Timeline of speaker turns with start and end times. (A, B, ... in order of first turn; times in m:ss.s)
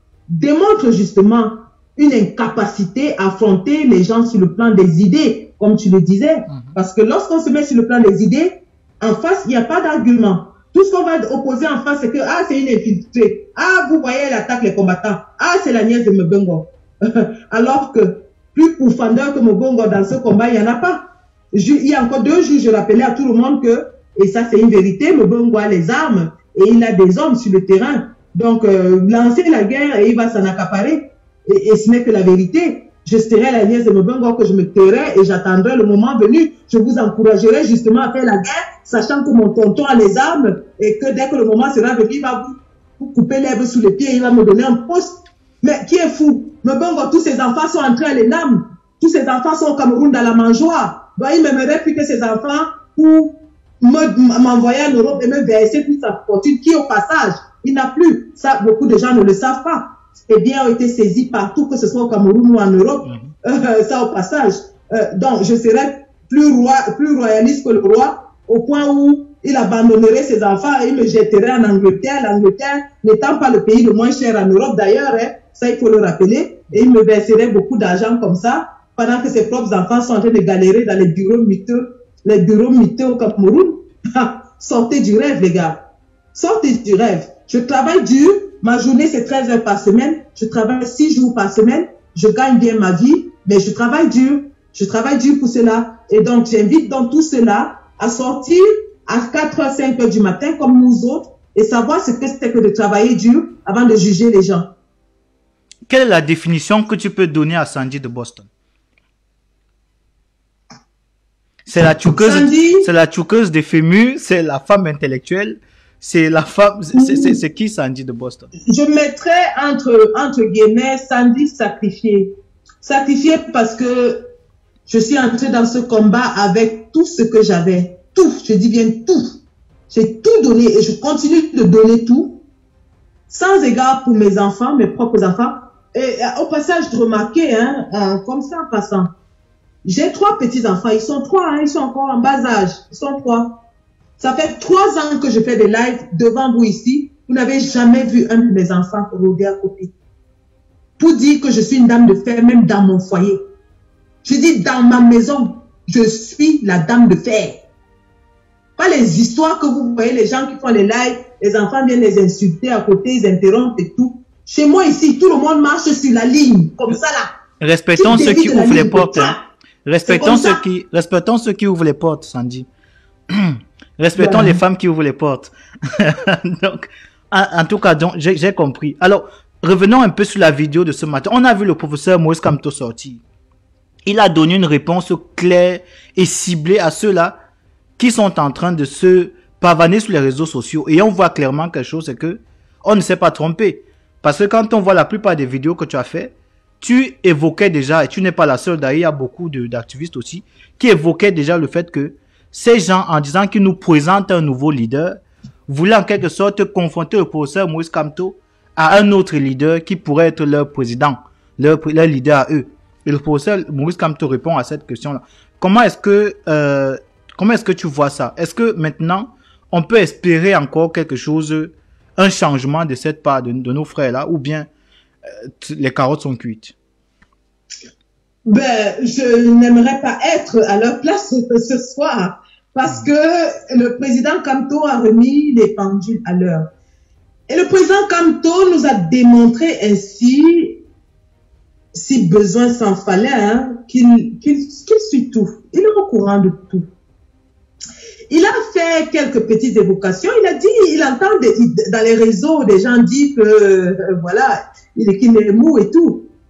0:00.3-1:25.8 A
0:06.5-0:06.8 B
1:03.0-1:03.3 B
1:26.3-1:44.7 A
1:45.9-1:48.5 B
1:51.7-1:58.5 B
1:52.0-1:52.9 A
1:57.0-1:57.4 A
1:58.7-2:04.2 A
2:04.9-2:09.3 A
2:09.9-2:12.4 A
2:13.3-2:19.1 A
2:19.8-2:23.6 A
2:24.2-2:29.9 A
2:31.0-2:33.4 A
2:34.2-2:37.6 A
2:38.8-2:47.3 A
2:47.6-2:52.7 B
2:48.0-2:49.4 A
2:50.1-2:50.6 A
2:53.3-3:03.2 B
2:54.2-2:54.6 A
3:04.1-3:07.4 B
3:08.0-3:44.7 B
3:45.4-3:46.7 B
3:48.5-3:56.7 A
3:57.5-4:00.8 A
4:01.9-4:06.9 A
4:08.3-4:16.3 A